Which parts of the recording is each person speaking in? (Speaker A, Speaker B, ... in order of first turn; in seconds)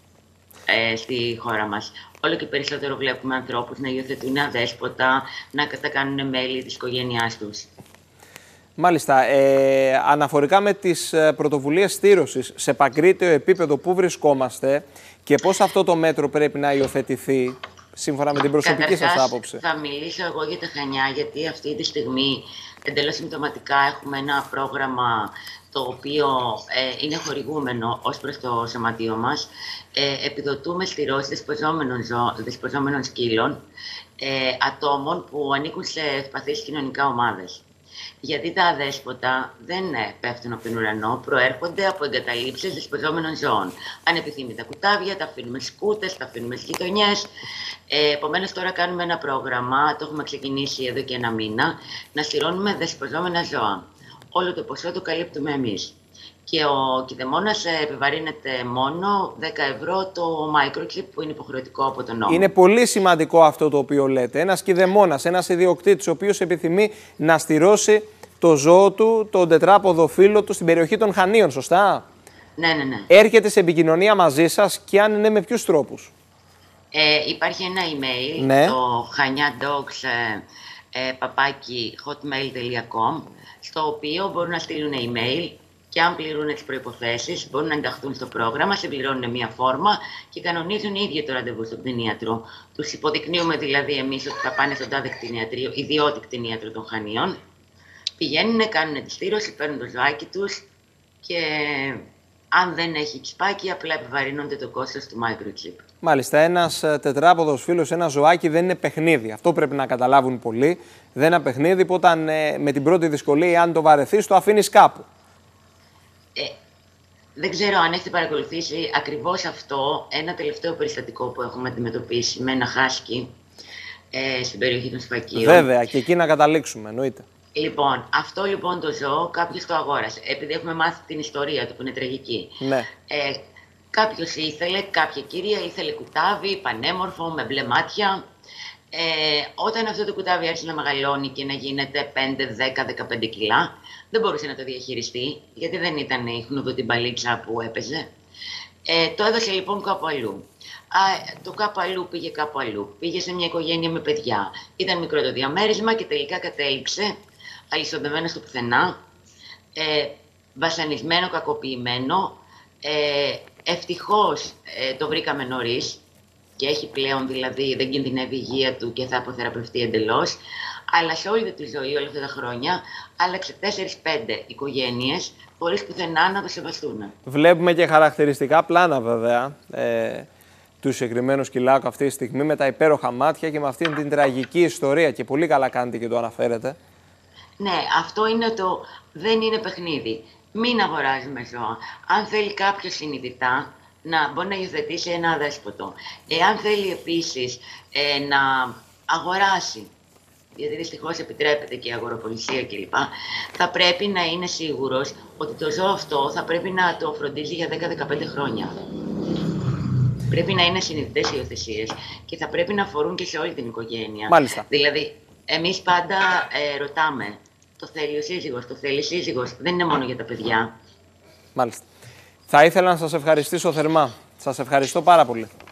Speaker A: 0.7-7.7, 18.6-33.6, 34.2-37.6, 38.2-47.3, 47.9-62.5, 72.6-73.1, 76.9-97.4, 98.2-100.7, 101.2-105.8, 117.4-123.3, 124.1-125.7, 127.5-138.2, 138.9-148.1, 148.9-157.2, 157.7-159.0, 159.8-166.0, 166.6-177.1, 187.6-199.9, 200.6-208.8, 210.3-220.7
Speaker B: 8.8-19.6, 62.3-72.0, 73.1-76.1, 78.4-78.8, 106.0-115.1, 125.3-127.2, 132.6-132.9, 177.3-180.3, 180.8-186.8, 214.3-214.7, 221.6-221.8, 222.5-225.5